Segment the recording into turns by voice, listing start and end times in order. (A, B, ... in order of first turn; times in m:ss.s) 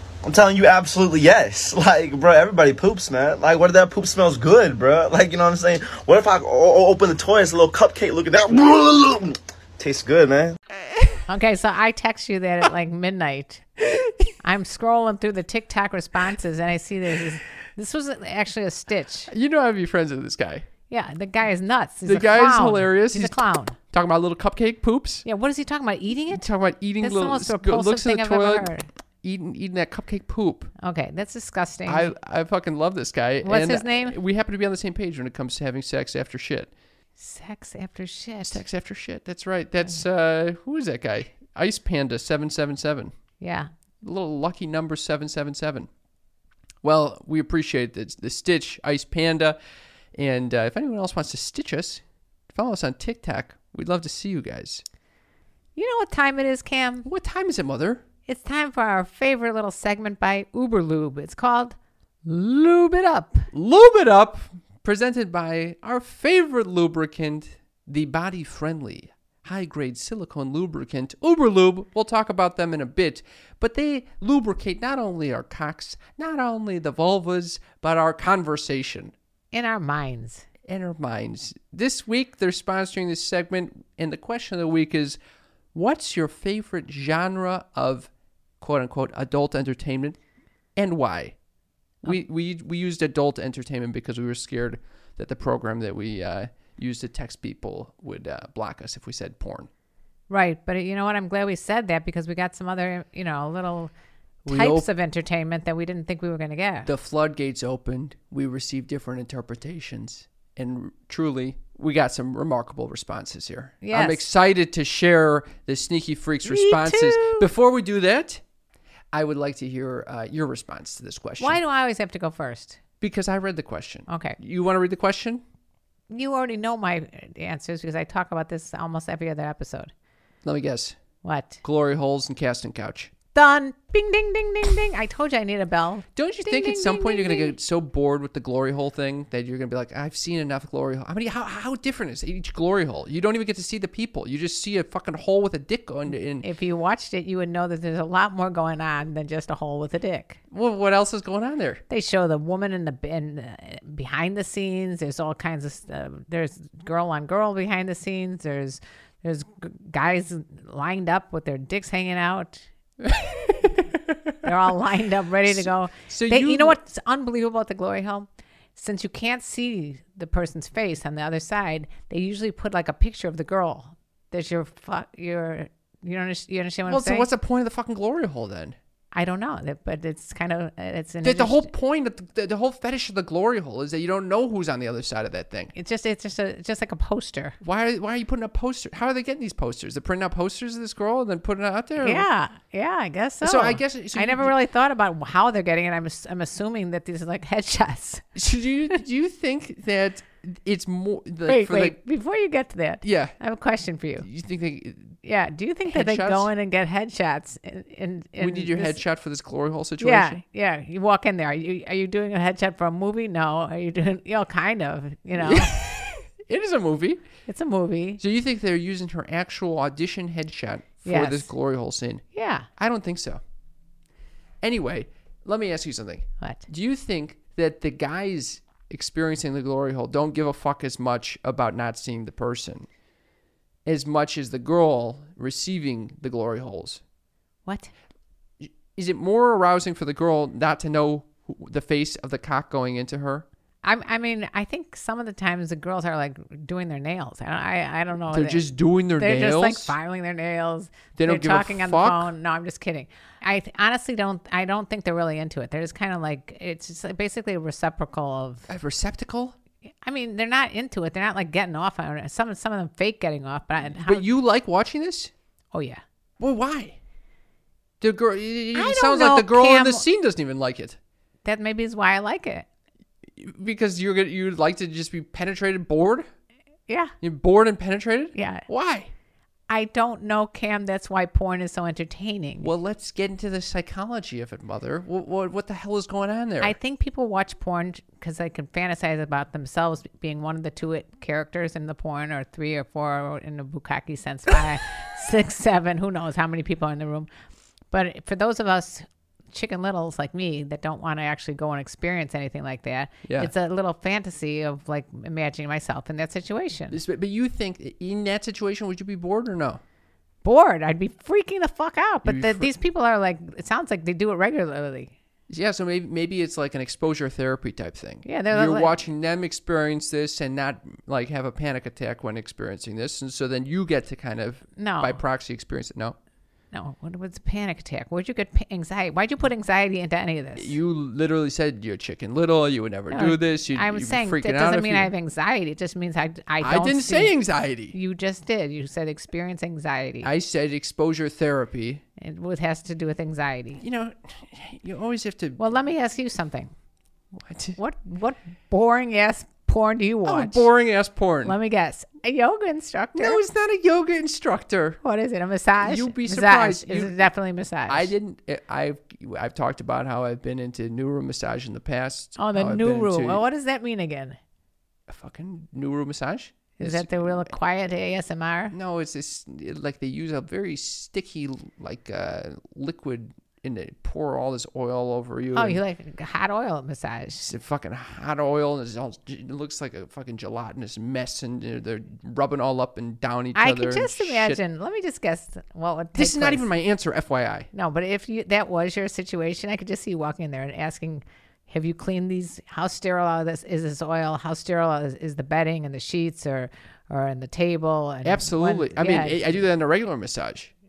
0:00.2-0:10.6 A
0:10.8-0:11.2 B
0:11.3-0:13.7 C
0:13.8-0:14.3 B
0:14.4-0:19.3 C
0:19.3-0:20.7 B
0:20.9-0:23.8 C
0:22.1-0:25.3 B
0:25.2-0:26.5 C
0:26.3-0:30.7 B
0:27.0-0:28.9 C
0:30.8-0:32.1 C
0:31.9-0:36.7 B
0:33.4-0:34.2 C
0:37.2-0:38.6 C
0:38.5-0:43.1 B
0:43.4-0:43.7 C
0:44.0-0:45.9 B
0:46.8-0:49.6 B
0:50.1-0:54.8 B
0:55.8-0:57.1 C
0:57.0-0:58.0 B
0:58.3-1:03.5 C
1:03.5-1:19.1 B
1:19.5-1:20.5 C
1:20.6-1:25.2 B
1:25.7-1:30.2 B
1:30.8-1:31.4 B
1:32.0-1:39.7 B
1:40.3-1:43.9 C
1:44.4-1:44.9 B
1:44.5-1:46.9 C
1:46.9-1:58.4 B
1:53.8-1:54.2 C
1:56.4-1:57.5 C
1:59.1-2:01.6 B
2:01.4-2:02.8 C
2:03.0-2:05.4 B
2:04.1-2:04.4 C
2:06.1-2:09.9 C
2:10.4-2:11.0 B
2:11.2-2:11.6 C
2:11.6-2:13.1 B
2:13.3-2:17.5 C
2:16.2-2:26.5 B
2:26.4-2:30.4 C
2:30.5-2:31.8 B
2:31.9-2:42.7 C
2:43.0-2:44.4 B
2:44.4-2:57.3 C
2:45.4-2:46.8 B
2:56.9-2:58.8 B
2:59.1-3:01.7 C
3:01.2-3:05.7 B
3:05.8-3:07.6 C
3:07.6-3:12.3 B
3:12.0-3:18.3 C
3:13.4-3:14.6 B
3:18.4-3:22.0 B
3:21.5-3:24.3 C
3:23.0-3:23.4 B
3:24.2-3:25.2 B
3:25.2-3:29.0 C
3:25.9-3:26.5 B
3:28.4-3:30.4 B
3:30.0-3:35.8 C
3:35.4-3:37.2 B
3:37.5-3:38.2 C
3:38.2-3:42.2 B
3:41.0-3:41.5 C
3:42.3-3:42.7 C
3:42.8-3:43.4 B
3:44.6-3:52.9 B
3:46.4-3:46.6 C
3:53.8-3:57.0 B
3:57.7-3:57.9 C
3:58.6-4:03.4 B
4:03.8-4:18.7 C
4:08.3-4:10.0 B
4:11.2-4:12.3 B
4:18.7-4:19.6 B
4:20.0-4:24.3 C
4:23.8-4:25.3 B
4:25.7-4:26.0 C
4:26.4-4:27.0 B
4:28.0-4:31.0 B
4:28.7-4:30.1 C
4:31.4-4:32.7 C
4:33.4-4:36.3 B
4:36.9-4:37.1 C
4:37.2-4:39.1 B
4:38.4-4:38.6 C
4:39.7-4:42.7 C
4:42.6-4:46.8 B
4:46.6-4:57.3 C
4:57.9-5:07.0 C
5:03.2-5:03.5 B
5:06.9-5:09.8 B
5:10.4-5:15.1 C
5:12.2-5:12.7 B
5:15.5-5:26.2 B
5:18.2-5:19.0 C
5:24.8-5:25.2 C
5:26.7-5:30.8 C
5:30.6-5:35.1 B
5:33.1-5:37.4 C
5:36.6-5:38.0 B
5:37.9-5:40.3 C
5:40.2-5:42.0 B
5:42.2-5:43.8 C
5:43.8-5:45.6 B
5:45.6-5:46.7 C
5:47.4-5:47.8 B
5:47.8-5:50.7 C
5:50.2-5:51.6 B
5:51.4-5:53.4 C
5:53.2-5:55.0 B
5:55.0-5:58.1 C
5:55.8-5:57.3 B
5:57.9-6:03.4 B
6:02.4-6:04.4 C
6:05.1-6:07.5 B
6:06.8-6:08.8 C
6:08.7-6:15.8 B
6:15.5-6:17.5 C
6:17.4-6:24.6 B
6:23.6-6:26.7 C
6:26.2-6:27.7 B
6:27.7-6:39.7 C
6:38.2-6:40.7 B